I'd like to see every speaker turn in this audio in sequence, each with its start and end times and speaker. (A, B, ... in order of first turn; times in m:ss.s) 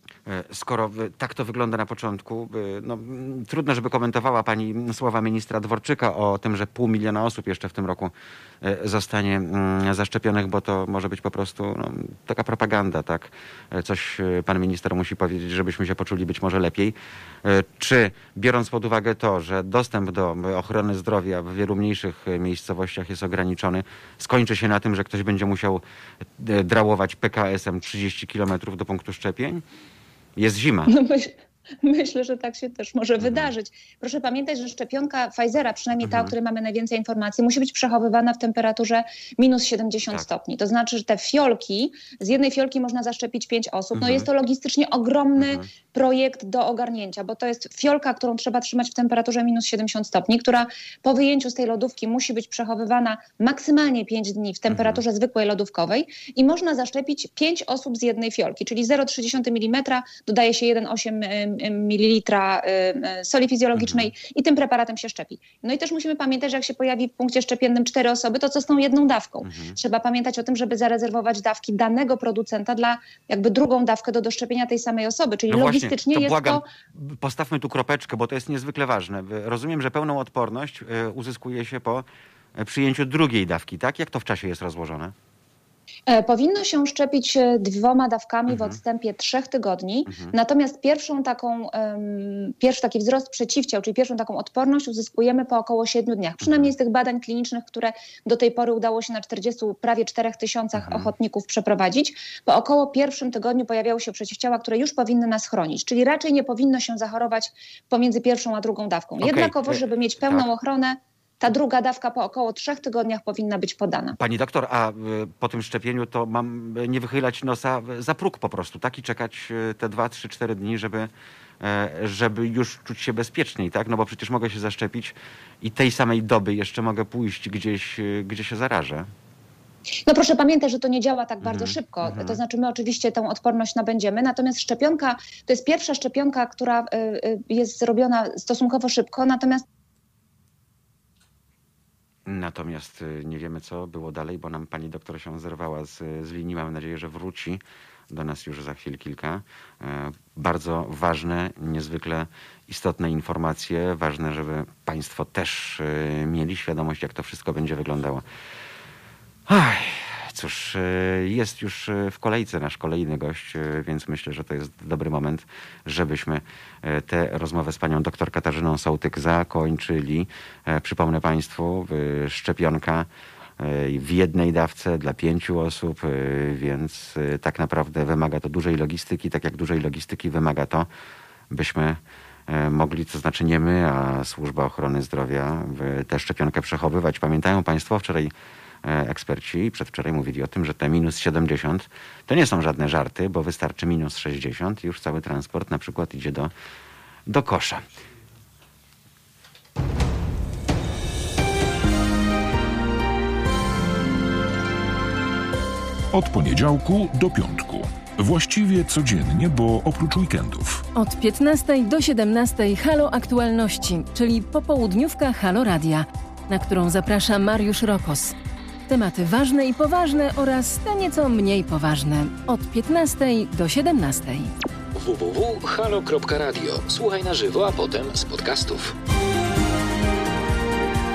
0:00.3-0:25.8 A
0:26.4-0:29.6 A
0:30.4-0:30.9 A
0:30.9-1:16.7 B
0:33.2-0:33.5 A
0:36.0-0:36.3 A
0:43.9-0:44.3 A
0:45.4-0:45.7 A
0:54.7-0:55.0 A
1:03.8-1:04.1 A
1:09.4-1:09.8 A
1:15.5-1:22.1 A
1:22.6-1:25.1 A
1:26.1-1:54.2 B
1:28.5-1:28.8 A
1:30.1-1:30.3 A
1:36.4-1:36.7 A
1:40.7-1:41.1 A
1:49.2-1:50.5 A
1:54.2-2:01.1 A
2:01.6-2:09.1 A
2:10.0-2:19.6 B
2:11.4-2:12.4 A
2:22.3-2:38.2 A
2:39.5-2:53.1 A
2:53.6-3:00.9 A
3:01.5-3:08.3 A
3:08.8-3:16.5 A
3:17.3-3:17.8 A
3:26.1-3:30.8 C
3:31.0-3:38.4 D
3:38.9-3:44.5 D
3:45.0-3:48.9 E